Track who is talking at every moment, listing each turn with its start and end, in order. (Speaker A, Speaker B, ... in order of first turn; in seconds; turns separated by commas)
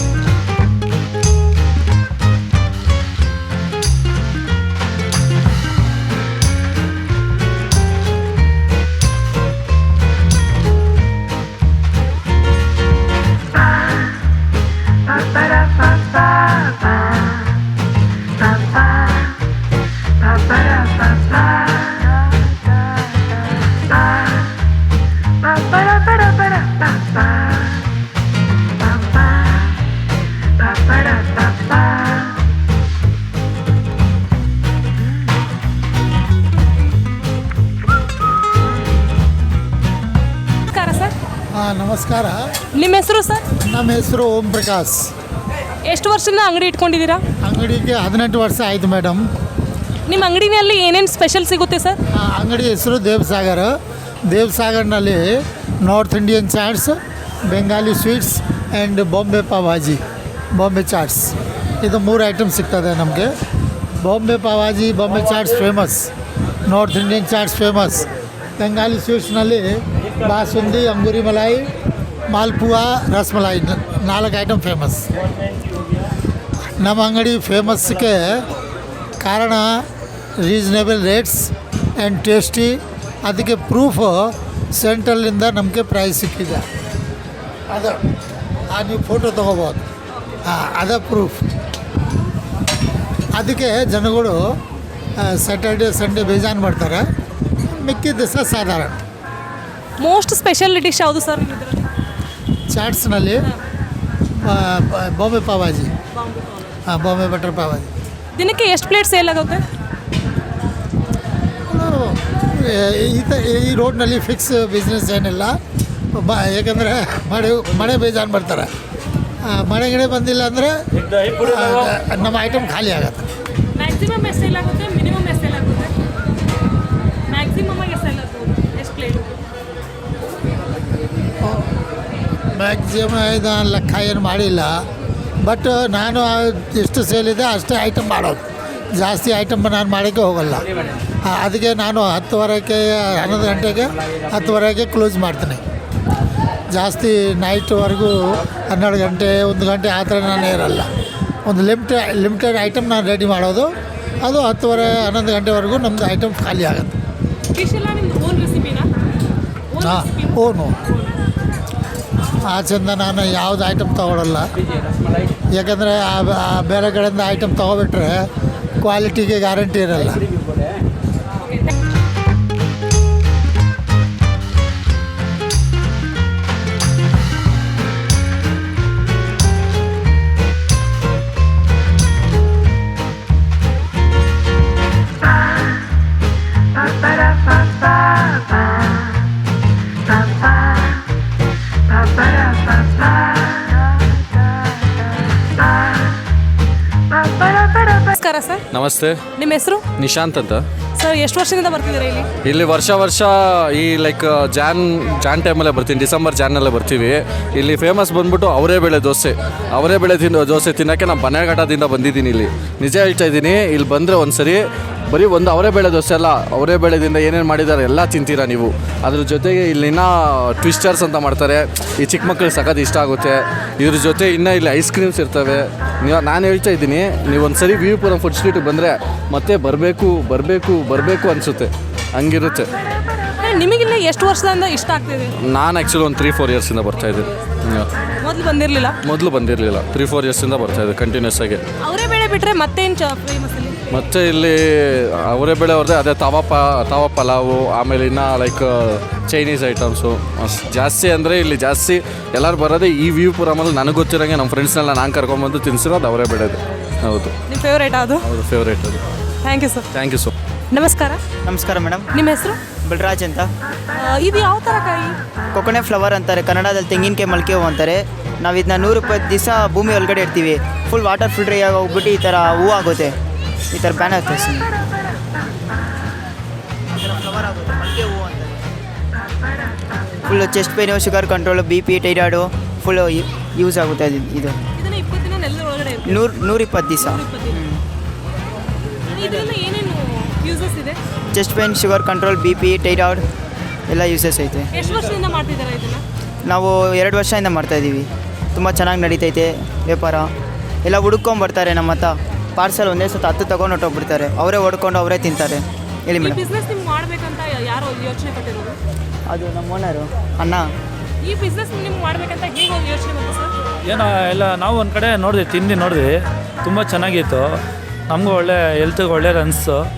Speaker A: 40.7-41.1, Speaker B: 41.5-42.4, Speaker A: 42.8-43.4, Speaker B: 43.6-45.1, Speaker A: 45.9-47.2, Speaker B: 47.4-49.2, Speaker A: 50.1-52.0, Speaker B: 52.2-53.8, Speaker B: 54.3-55.3, Speaker B: 55.8-57.0, Speaker B: 57.5-60.0, Speaker B: 60.6-63.3, Speaker B: 64.0-66.1, Speaker B: 66.7-68.1, Speaker B: 68.6-71.7, Speaker B: 72.3-75.1, Speaker B: 76.8-78.4, Speaker B: 79.2-79.8, Speaker B: 80.4-86.7, Speaker B: 87.7-88.0, Speaker B: 88.7-89.9, Speaker B: 90.5-91.4, Speaker B: 93.3-94.4, Speaker B: 95.2-97.0, Speaker B: 97.7-99.0, Speaker A: 100.0-101.8, Speaker B: 102.7-103.5, Speaker B: 104.4-105.9, Speaker A: 106.2-106.7, Speaker B: 106.9-107.9, Speaker A: 108.4-109.6, Speaker B: 111.7-115.6, Speaker B: 116.1-118.7, Speaker B: 119.5-123.2, Speaker A: 123.8-125.9, Speaker A: 127.3-129.3, Speaker B: 131.4-131.7, Speaker B: 132.6-134.7, Speaker B: 135.4-140.7, Speaker B: 141.2-145.6, Speaker B: 146.7-150.9, Speaker B: 151.5-157.0, Speaker A: 157.5-158.9, Speaker A: 159.7-160.4, Speaker B: 159.8-160.8, Speaker B: 162.5-164.5, Speaker B: 165.5-168.3, Speaker B: 168.8-170.3, Speaker A: 197.4-198.6, Speaker C: 198.7-199.2, Speaker A: 199.4-199.8, Speaker C: 200.0-200.6, Speaker A: 201.0-202.3, Speaker C: 202.4-232.7, Speaker A: 233.4-235.3, Speaker C: 235.5-237.9, Speaker A: 238.2-239.0, Speaker C: 239.0-241.6, Speaker A: 241.8-243.8, Speaker C: 243.9-244.6, Speaker C: 245.3-257.3, Speaker A: 257.5-258.3, Speaker C: 258.2-259.0, Speaker A: 259.4-259.9, Speaker C: 259.9-260.3, Speaker A: 260.7-261.2, Speaker D: 261.5-262.0, Speaker A: 262.1-262.6, Speaker D: 262.8-263.5, Speaker A: 264.0-265.2, Speaker D: 265.6-273.1, Speaker D: 273.7-274.7, Speaker D: 276.9-278.6, Speaker D: 280.3-284.6, Speaker A: 284.8-286.3, Speaker D: 286.1-287.8, Speaker A: 287.0-287.6, Speaker A: 289.1-291.0, Speaker D: 291.3-293.2, Speaker D: 293.9-294.7, Speaker A: 294.7-296.0, Speaker D: 296.5-300.3, Speaker D: 300.9-306.4, Speaker A: 306.2-308.8, Speaker D: 309.3-310.7, Speaker A: 311.2-313.5, Speaker E: 313.9-316.1, Speaker E: 316.6-319.8